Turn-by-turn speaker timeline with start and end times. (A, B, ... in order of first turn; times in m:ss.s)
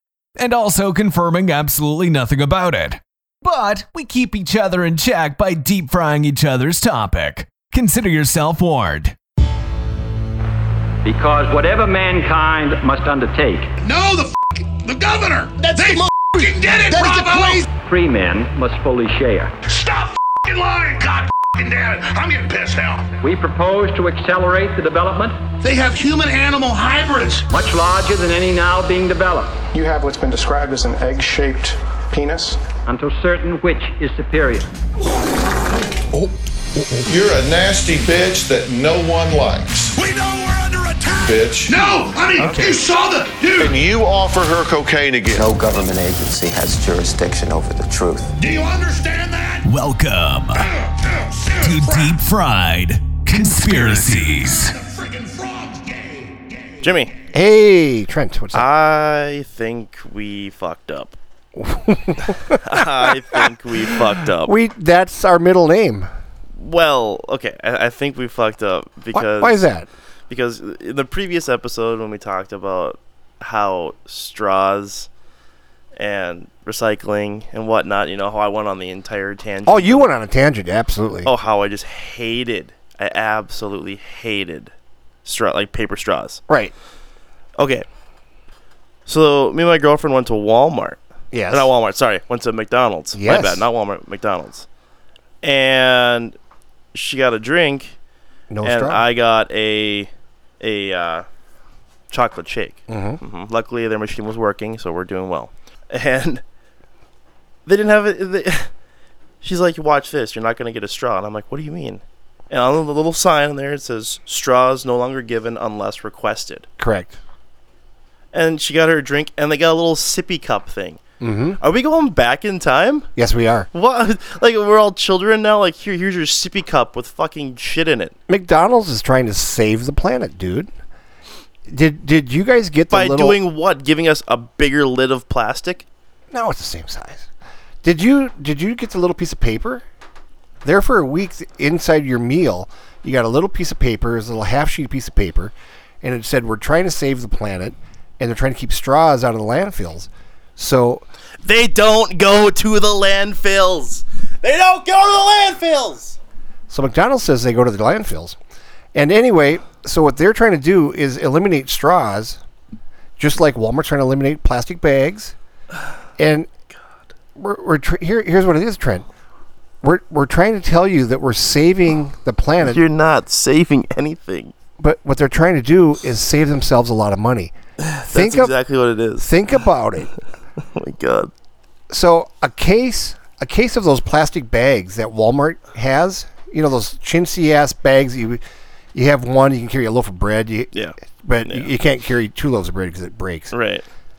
0:00.4-0:09.2 A
0:11.0-0:13.7 B
0:13.8-0:17.7 C
0:17.8-0:19.5 B
0:19.7-0:23.1 C
0:23.2-0:25.4 B
0:25.6-0:27.5 C
0:27.5-0:29.6 B
0:29.7-0:32.6 D
0:32.8-0:34.7 B
0:37.1-0:39.7 E
0:39.9-0:43.8 C
0:41.4-0:41.7 E
0:42.4-0:42.8 F
0:43.7-0:45.0 E
0:45.3-0:48.3 G
0:48.4-0:49.7 C
0:49.7-0:50.7 A
0:50.6-0:52.2 C
0:51.6-0:54.8 A
0:53.7-0:56.8 C
0:56.8-0:57.1 F
0:57.3-0:58.7 H
0:58.5-1:01.2 F
1:01.6-1:06.1 H
1:02.5-1:04.6 F
1:06.6-1:09.6 F
1:09.1-1:09.9 H
1:10.3-1:15.1 F
1:16.0-1:20.1 F
1:19.6-1:21.3 H
1:21.2-1:24.7 F
1:25.2-1:26.4 F
1:26.5-1:26.7 H
1:27.6-1:27.8 F
1:29.1-1:34.7 F
1:31.3-1:31.7 H
1:33.1-1:33.6 H
1:35.4-1:36.4 F
1:36.9-1:38.0 F
1:38.5-1:39.0 H
1:38.6-1:41.3 F
1:42.1-1:46.4 F
1:42.9-1:43.2 H
1:47.7-1:48.7 F
1:49.4-1:56.7 F
1:56.8-1:57.2 H
1:58.3-2:01.0 F
2:01.2-2:01.6 H
2:01.6-2:03.1 F
2:03.2-2:03.7 H
2:03.7-2:08.2 F
2:08.3-2:10.7 H
2:11.7-2:13.4 H
2:12.9-2:15.9 F
2:16.3-2:17.3 H
2:17.8-2:19.8 H
2:20.6-2:31.0 H
2:31.4-2:36.2 F
2:36.7-2:38.4 H
2:38.9-2:42.4 H
2:43.2-2:45.4 H
2:46.2-2:46.5 H
2:47.4-2:49.1 H
2:49.8-2:52.8 H
2:52.6-2:54.5 F
2:54.8-2:57.5 H
2:57.8-2:59.3 F
2:58.1-2:58.6 H
2:59.2-3:00.1 H
3:00.6-3:01.3 F
3:01.9-3:08.4 H
3:08.9-3:13.5 H
3:10.7-3:11.7 F
3:13.5-3:13.8 F